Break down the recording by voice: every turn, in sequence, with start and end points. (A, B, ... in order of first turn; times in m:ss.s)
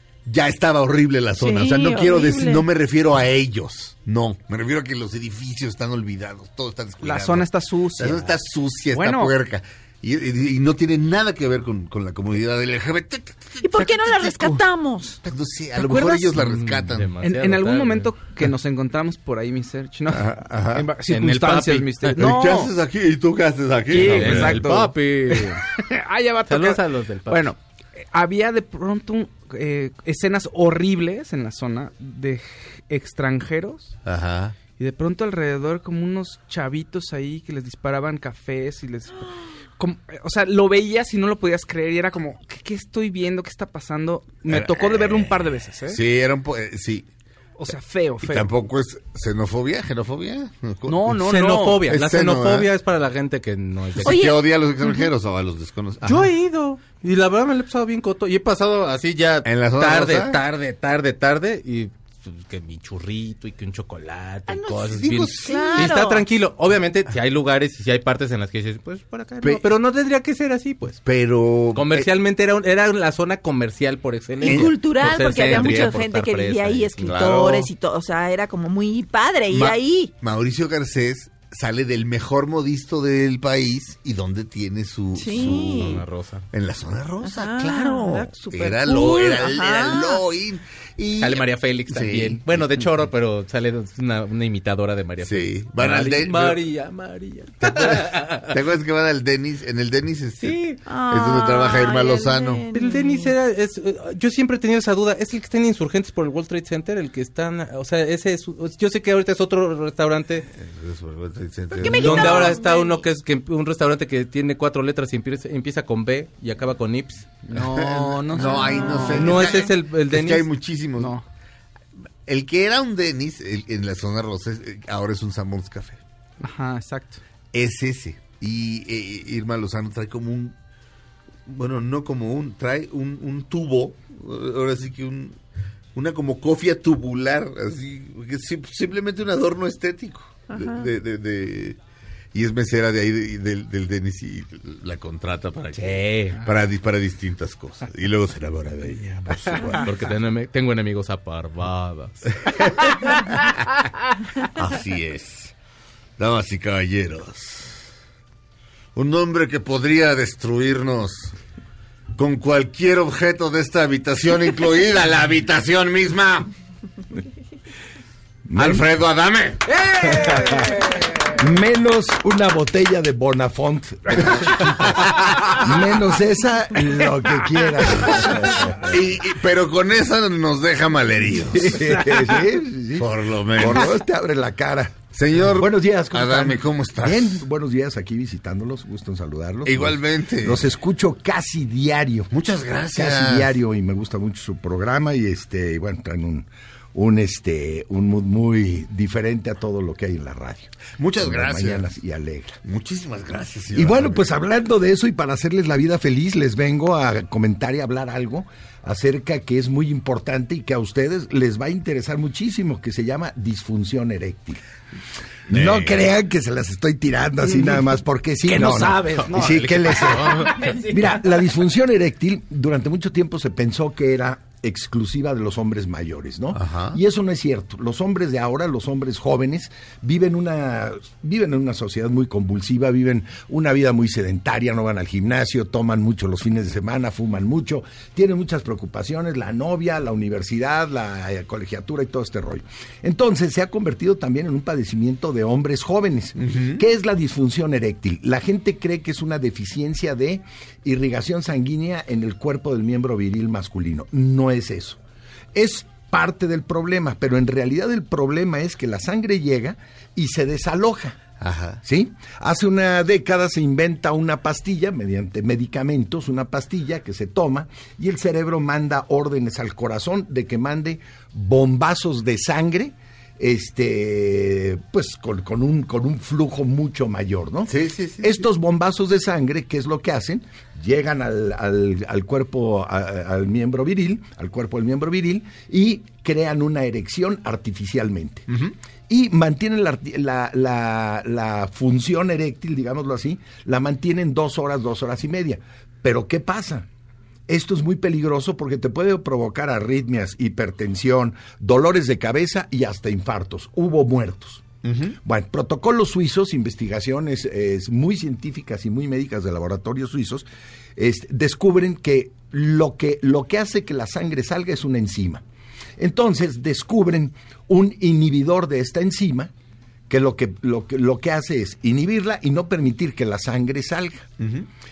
0:00.3-0:14.7 A
0:01.4-0:02.7 B
0:07.0-0:08.4 C
0:08.9-0:09.3 C
0:13.6-0:15.2 B
0:15.2-0:17.1 A
0:15.9-0:16.2 C
0:16.3-0:18.1 D
0:17.2-0:22.7 C
0:20.1-0:20.9 A
0:21.1-0:22.2 D
0:22.2-0:24.7 A
0:23.9-0:27.6 C
0:23.9-0:25.6 D
0:26.5-0:27.5 D
0:28.1-0:34.0 C
0:34.0-0:34.6 A
0:34.8-0:46.0 C
0:44.5-0:47.1 A
0:47.6-0:48.5 C
0:48.2-0:51.3 A
0:50.9-0:51.9 C
0:51.2-0:54.3 D
0:51.8-0:52.7 A
0:54.0-0:56.3 A
0:54.1-0:55.0 B
0:56.0-1:11.0 D
0:59.4-1:00.4 A
1:04.5-1:06.1 A
1:05.4-1:06.2 B
1:11.0-1:12.1 A
1:11.7-1:17.1 D
1:14.4-1:20.1 B
1:14.4-1:16.0 A
1:17.0-1:17.7 A
1:19.5-1:32.9 A
1:25.2-1:26.0 B
1:25.4-1:26.4 D
1:27.2-1:30.2 B
1:31.2-1:38.5 D
1:35.2-1:36.6 A
1:37.6-1:42.6 A
1:40.4-1:40.8 D
1:40.8-1:43.3 B
1:42.7-1:50.5 D
1:50.5-1:52.6 A
1:51.8-1:53.0 B
1:51.9-1:57.3 D
1:57.4-1:59.6 C
1:57.5-2:01.2 A
1:58.5-1:59.1 B
1:59.1-2:00.4 D
2:01.0-2:01.2 C
2:02.3-2:06.0 A
2:06.4-2:07.2 C
2:07.5-2:10.6 A
2:11.5-2:15.4 A
2:16.0-2:21.8 A
2:20.5-2:20.9 B
2:22.3-2:29.9 A
2:25.8-2:26.4 D
2:29.7-2:32.2 D
2:32.5-2:32.7 A
2:34.6-2:35.5 A
2:36.2-2:37.9 A
2:39.0-2:41.3 A
2:42.2-2:46.5 A
2:48.5-2:48.9 E
2:48.6-2:50.3 A
2:49.7-2:51.0 C
2:51.4-2:54.6 E
2:54.1-2:55.7 A
2:55.5-2:58.9 E
2:58.1-3:02.4 A
3:01.5-3:12.3 E
3:03.0-3:04.0 A
3:05.1-3:07.4 A
3:09.6-3:10.7 A
3:12.3-3:13.5 A
3:12.9-3:22.6 E
3:21.0-3:21.8 A
3:22.6-3:24.3 A
3:23.7-3:34.6 E
3:35.5-3:36.1 A
3:35.5-4:15.0 E
3:37.5-3:37.8 C
3:38.4-3:40.8 C
3:39.3-3:40.7 D
3:46.5-3:47.0 A
4:06.4-4:06.9 A
4:15.5-4:21.2 E
4:21.4-4:21.8 A
4:21.8-4:48.5 E
4:37.7-4:38.5 A
4:48.5-4:48.7 A
4:49.1-4:56.9 E
4:57.5-5:04.6 E
5:04.8-5:05.2 A
5:05.2-5:15.4 E
5:16.0-5:19.5 E
5:20.1-5:24.3 E
5:24.4-5:24.7 A